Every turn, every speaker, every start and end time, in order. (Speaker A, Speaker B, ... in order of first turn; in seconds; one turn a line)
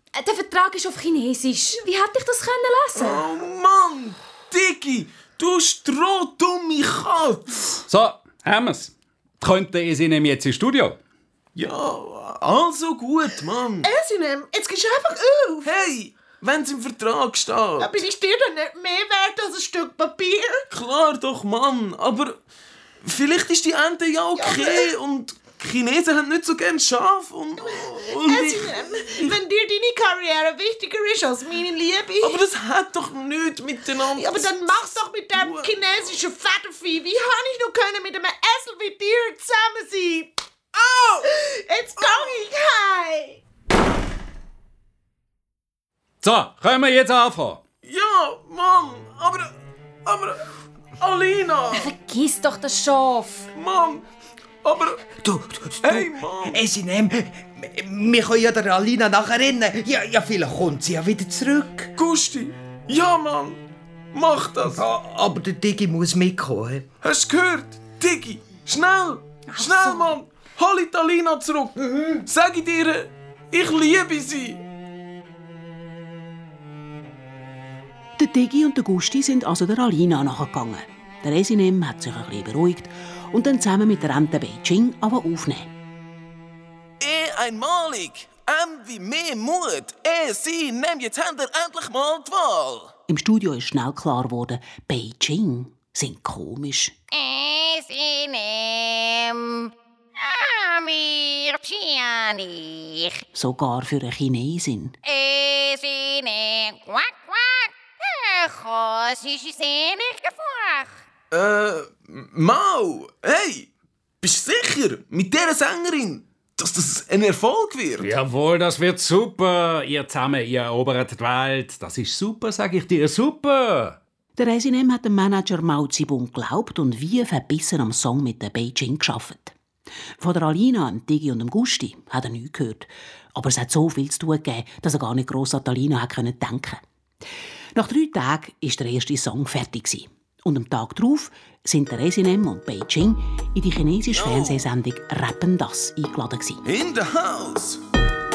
Speaker A: 0.1-3.2
Speaker B: 3.0-7.8
Speaker C: 7.9-11.0
Speaker B: 11.6-13.9
Speaker D: 13.8-15.7
Speaker B: 15.6-18.0
Speaker D: 17.8-20.6
Speaker B: 20.7-22.4
Speaker B: 23.0-29.4
Speaker D: 24.4-24.9
Speaker D: 28.2-32.4
Speaker B: 32.2-34.5
Speaker D: 34.1-40.4
Speaker B: 35.3-35.8
Speaker B: 40.8-41.3
Speaker D: 41.2-43.4
Speaker B: 42.0-42.3
Speaker C: 46.2-47.6
Speaker B: 47.8-49.5
Speaker B: 50.1-50.4
Speaker B: 51.0-51.9
Speaker A: 51.7-53.5
Speaker B: 53.5-54.0
Speaker B: 54.6-55.0
Speaker E: 55.2-61.9
Speaker B: 55.8-56.6
Speaker B: 62.0-63.6
Speaker B: 64.1-64.8
Speaker E: 64.7-66.9
Speaker B: 67.0-74.6
Speaker A: 69.5-70.1
Speaker F: 78.2-85.7
Speaker B: 87.0-92.9
Speaker F: 93.1-97.0
Speaker G: 97.1-103.2
Speaker F: 103.3-105.0
Speaker G: 105.0-110.9
Speaker B: 111.3-113.7
Speaker B: 114.2-118.1
Speaker C: 118.0-124.0
Speaker F: 124.4-129.6
Speaker F: 130.2-136.8
Speaker F: 137.8-146.6
Speaker B: 144.1-144.7
Speaker B: 146.7-147.8